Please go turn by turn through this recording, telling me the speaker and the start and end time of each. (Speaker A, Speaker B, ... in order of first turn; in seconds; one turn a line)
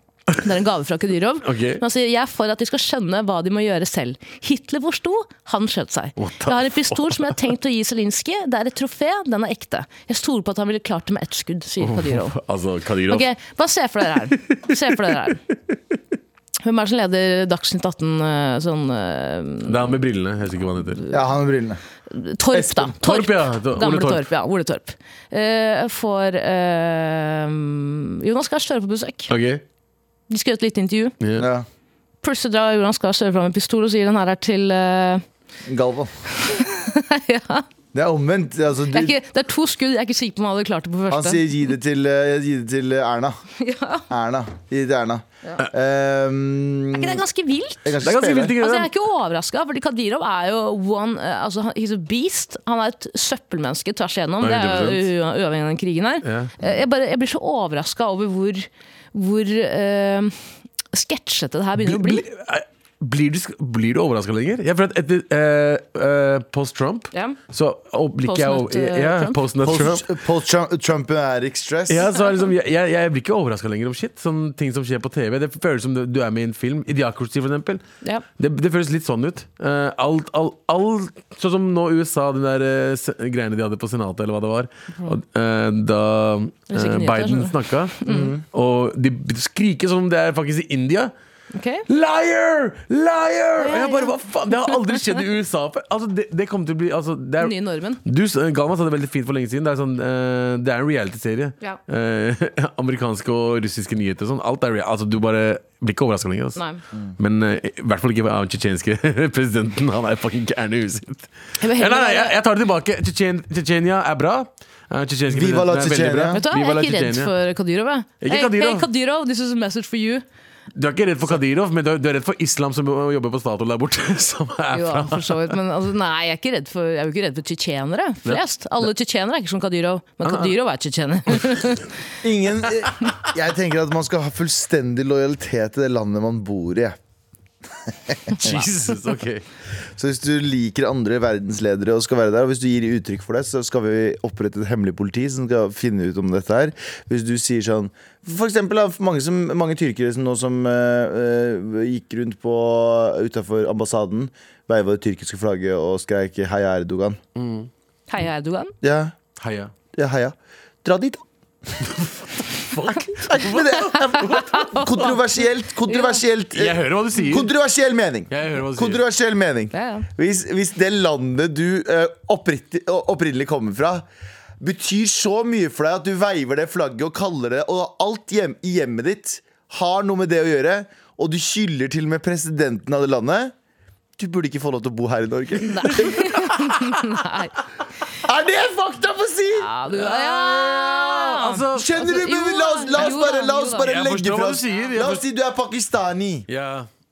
Speaker A: 0.3-12.3
Speaker B: 1.4-1.8
Speaker B: 6.2-7.3
Speaker B: 11.8-13.3
Speaker A: 13.1-15.4
Speaker A: 16.6-19.8
Speaker B: 19.6-21.0
Speaker C: 21.1-21.8
Speaker A: 22.1-29.3
Speaker B: 22.5-24.2
Speaker B: 29.3-29.6
Speaker A: 30.3-31.1
Speaker B: 31.2-31.5
Speaker C: 31.4-31.6
Speaker A: 32.2-35.2
Speaker C: 35.6-36.1
Speaker A: 36.4-37.6
Speaker C: 37.9-39.1
Speaker A: 38.9-41.5
Speaker C: 41.1-43.4
Speaker A: 43.6-44.0
Speaker C: 44.1-47.2
Speaker A: 46.9-47.9
Speaker C: 47.8-48.5
Speaker B: 48.0-48.9
Speaker A: 48.6-60.4
Speaker B: 54.4-55.0
Speaker B: 56.2-56.5
Speaker A: 60.9-62.2
Speaker B: 61.8-70.1
Speaker A: 67.1-67.4
Speaker A: 68.2-69.4
Speaker C: 69.6-72.1
Speaker B: 71.9-77.8
Speaker A: 72.0-72.5
Speaker B: 78.4-91.1
Speaker A: 86.7-88.3
Speaker C: 88.1-88.4
Speaker A: 91.5-91.8
Speaker B: 91.9-97.5
Speaker A: 93.6-94.1
Speaker A: 94.7-95.0
Speaker A: 97.4-98.0
Speaker B: 98.0-106.6
Speaker A: 106.5-106.8
Speaker B: 107.2-117.3
Speaker A: 111.6-112.3
Speaker C: 115.3-116.4
Speaker A: 116.3-120.2
Speaker B: 118.2-118.9
Speaker B: 120.7-125.5
Speaker A: 124.7-131.9
Speaker B: 128.2-128.8
Speaker B: 130.2-130.5
Speaker C: 132.2-137.0
Speaker C: 138.1-138.6
Speaker B: 138.4-139.4
Speaker C: 139.9-157.2
Speaker B: 157.3-157.7
Speaker A: 158.1-158.7
Speaker C: 158.8-159.1
Speaker B: 159.4-159.7
Speaker C: 159.9-161.2
Speaker B: 161.8-165.2
Speaker C: 163.1-174.1
Speaker A: 164.5-165.1
Speaker A: 165.9-166.2
Speaker B: 166.5-167.5
Speaker B: 168.3-169.0
Speaker A: 169.7-170.1
Speaker C: 174.6-183.5
Speaker C: 184.2-186.3
Speaker A: 185.6-187.5
Speaker C: 188.2-189.7
Speaker A: 189.5-193.9
Speaker B: 189.9-191.9
Speaker C: 191.7-196.5
Speaker B: 193.8-195.2
Speaker B: 196.5-196.9